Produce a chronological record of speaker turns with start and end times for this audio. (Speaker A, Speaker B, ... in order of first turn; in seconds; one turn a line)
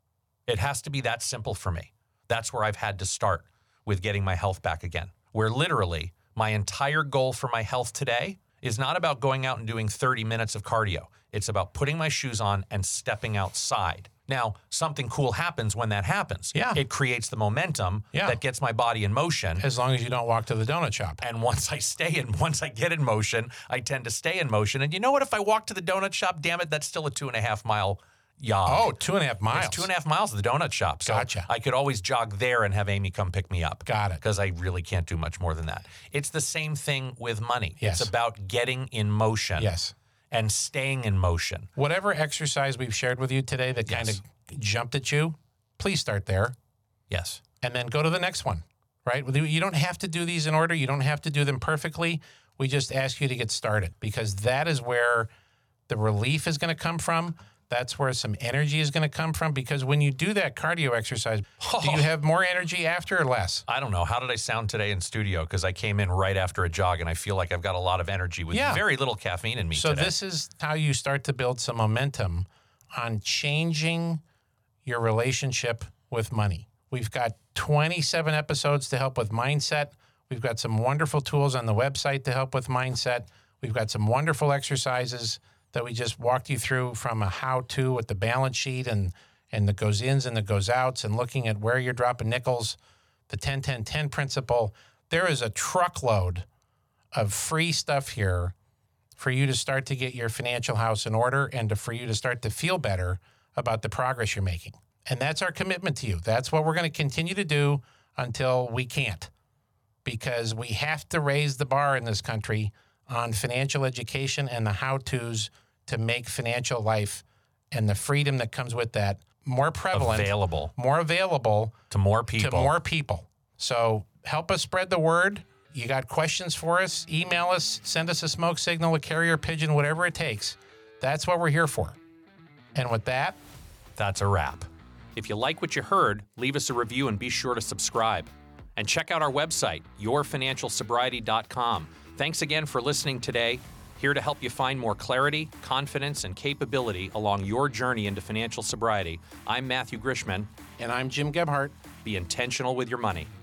Speaker A: 0.5-19.7
Speaker B: 16.5-16.8
Speaker B: 18.1-18.4
Speaker B: 19.6-21.2
Speaker A: 21.2-28.9
Speaker B: 28.6-29.9
Speaker A: 29.5-39.7
Speaker B: 31.0-31.5
Speaker B: 33.9-34.2
Speaker B: 37.8-38.1
Speaker B: 39.6-39.9
Speaker A: 40.3-41.7
Speaker B: 41.8-46.5
Speaker A: 43.9-44.2
Speaker A: 47.1-47.4
Speaker B: 47.6-55.3
Speaker B: 55.9-63.6
Speaker A: 61.6-62.1
Speaker A: 63.7-70.1
Speaker B: 68.5-68.8
Speaker B: 69.7-74.2
Speaker B: 74.8-92.8
Speaker B: 93.3-96.5
Speaker B: 97.1-98.5
Speaker B: 99.2-109.3
Speaker B: 110.0-121.8
Speaker A: 119.9-120.7
Speaker A: 121.9-122.7
Speaker B: 122.3-132.0
Speaker B: 132.7-133.4
Speaker A: 133.9-150.5
Speaker B: 150.8-151.8
Speaker A: 152.0-153.3